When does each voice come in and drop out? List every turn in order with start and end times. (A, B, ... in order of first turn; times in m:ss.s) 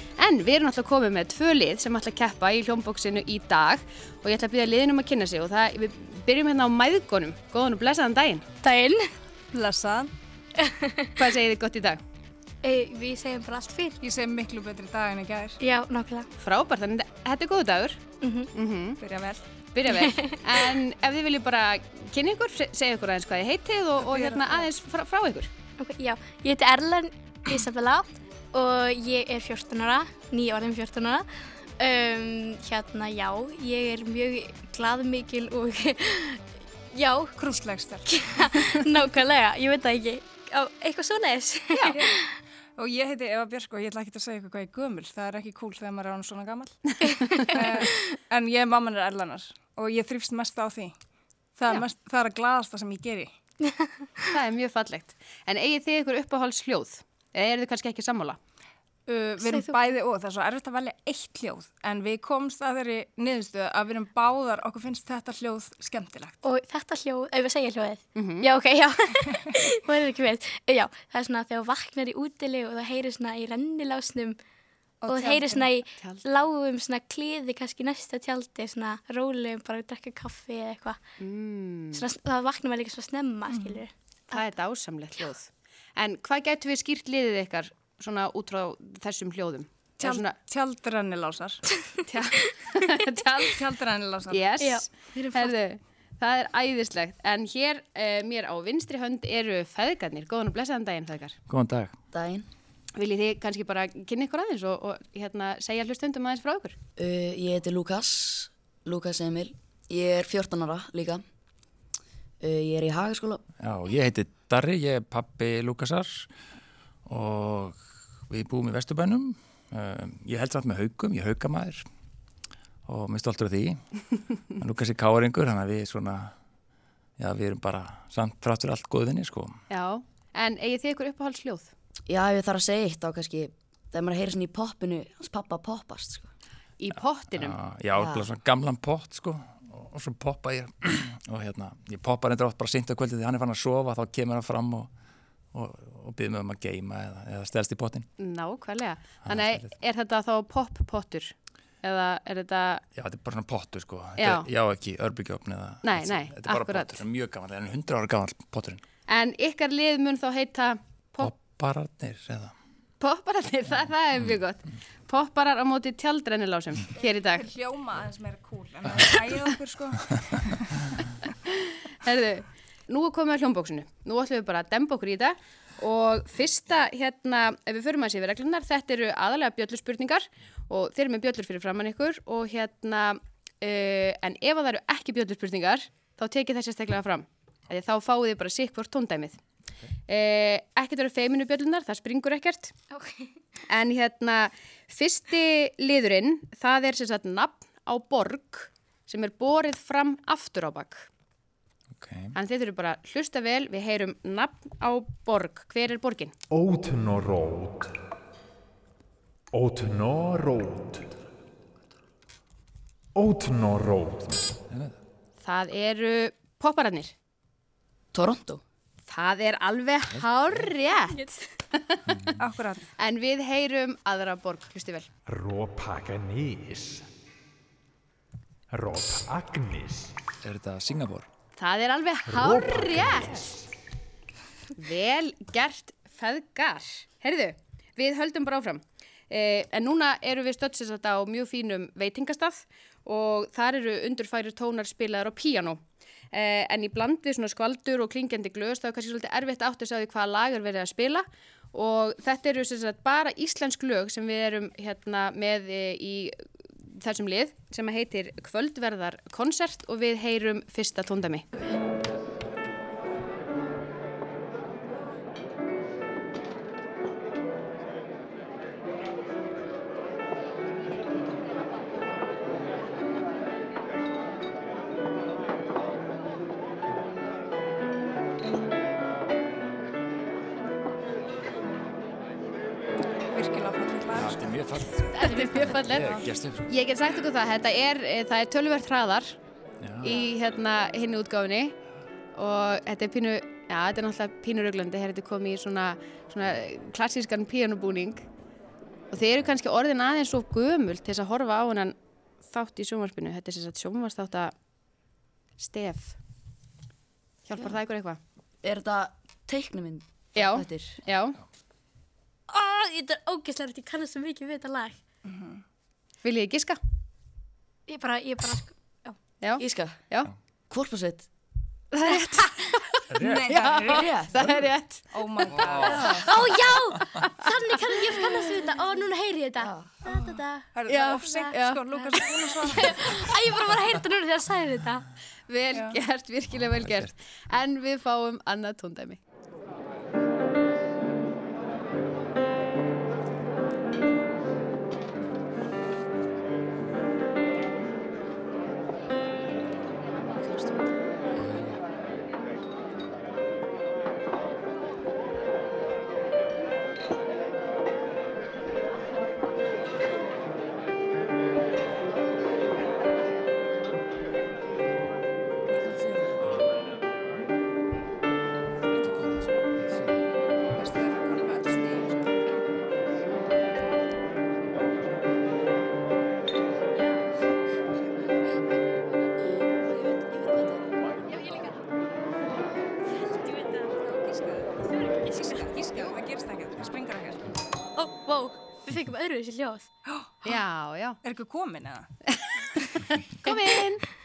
0:00.2-0:08.4 A
0:08.6-0:09.0 B
0:09.5-0:10.1 C
0:10.6-0:11.2 B
0:11.2-0:12.0 A
0:12.6-0:14.0 B
0:14.0-0:15.6 C
0:15.6-0:16.3 B
0:16.4-0:18.0 A
0:18.2-0:18.5 B
0:18.5-0:19.0 A
0:19.0-0:19.4 C
0:19.7-0:25.5 A
0:19.9-0:20.4 B
0:24.0-0:24.7 C
0:25.8-0:31.3 B
0:31.8-0:37.4 B
0:37.4-0:38.8 C
0:38.1-0:42.3 B
0:41.8-0:42.2 C
0:42.8-0:47.0 C
0:47.0-0:48.1 B
0:47.5-0:51.0 C
0:51.6-0:53.3 C
0:53.6-0:54.2 B
0:54.3-0:58.4 A
0:59.1-1:06.4 C
0:59.4-0:59.8 B
1:06.4-1:14.4 B
1:08.2-1:08.5 A
1:15.0-1:15.7 C
1:15.1-1:21.0 B
1:16.0-1:16.4 A
1:21.2-1:22.1 A
1:21.9-1:24.5 B
1:23.5-1:23.8 C
1:24.3-1:30.4 A
1:30.0-1:31.6 C
1:32.0-1:33.6 A
1:33.5-1:34.5 C
1:34.3-1:41.4 A
1:34.6-1:35.6 B
1:41.5-1:42.0 D
1:42.1-1:42.5 E
1:43.0-1:46.8 A
1:47.0-1:51.2 E
1:52.4-1:53.4 E
1:53.6-1:56.3 D
1:57.1-2:01.8 D
2:02.9-2:03.8 D
2:04.6-2:06.3 D
2:07.2-2:09.6 D
2:09.7-2:11.7 A
2:12.1-2:16.3 E
2:16.8-2:17.6 A
2:17.1-2:24.9 D
2:18.0-2:18.3 E
2:25.5-2:28.1 D
2:28.2-2:32.8 A
2:29.2-2:29.7 D
2:33.0-2:38.8 D
2:34.2-2:34.5 A
2:35.8-2:37.0 A
2:39.1-2:41.4 A
2:41.2-2:42.5 D
2:43.0-2:47.4 A
2:47.0-2:50.6 C
2:52.0-3:09.4 A
3:10.1-3:12.7 A
3:12.9-3:13.3 B
3:13.7-3:21.1 A
3:22.0-3:22.3 D
3:22.3-3:26.3 A
3:26.5-3:28.0 F
3:29.5-3:31.1 F
3:33.2-3:34.3 F
3:34.2-3:35.0 D
3:35.4-3:37.1 A
3:38.1-3:38.6 E
3:39.1-3:42.0 A
3:40.1-3:40.8 D
3:40.9-3:41.4 B
3:42.1-3:42.4 D
3:42.4-3:42.8 C
3:43.0-3:45.1 A
3:45.3-3:47.1 F
3:48.7-3:50.1 F
3:50.4-3:51.3 D
3:51.6-3:53.5 A
3:52.3-3:53.6 F
3:54.8-4:05.8 A
4:06.3-4:21.4 A
4:43.3-4:44.5 C
4:44.1-4:46.7 D
4:45.1-4:49.4 A
4:45.4-4:45.9 B
4:49.8-4:50.3 D
4:50.0-4:51.7 A
4:52.4-4:58.2 A
4:59.1-5:02.0 A
5:02.5-5:04.5 A
5:05.6-5:06.2 A
5:07.4-5:08.2 A
5:08.6-5:11.0 E
5:10.4-5:11.4 A
5:12.5-5:15.0 B
5:15.2-5:15.6 C
5:16.2-5:16.8 A
5:17.9-5:19.2 B
5:19.4-5:20.3 A
5:19.6-5:20.0 E
5:20.7-5:21.3 E
5:21.9-5:25.1 A
5:23.1-5:23.6 D
5:23.2-5:24.1 C
5:23.9-5:24.4 E
5:25.1-5:26.3 C
5:25.6-5:26.1 D
5:25.6-5:26.1 A
5:26.2-5:30.7 B
5:26.9-5:27.2 D
5:29.6-5:30.0 E
5:30.1-5:33.2 C
5:30.9-5:31.8 A
5:31.9-5:35.1 B
5:35.5-5:39.2 A
5:36.6-5:37.1 D
5:50.5-5:50.8 E
6:08.9-6:10.2 D
6:10.8-6:12.2 C
6:20.0-6:20.8 E
6:23.9-6:27.5 C
6:24.8-6:25.7 B
6:28.0-6:29.9 B
6:30.1-6:30.5 C
6:30.4-6:31.2 A
6:31.2-6:32.1 C
6:32.3-6:34.0 A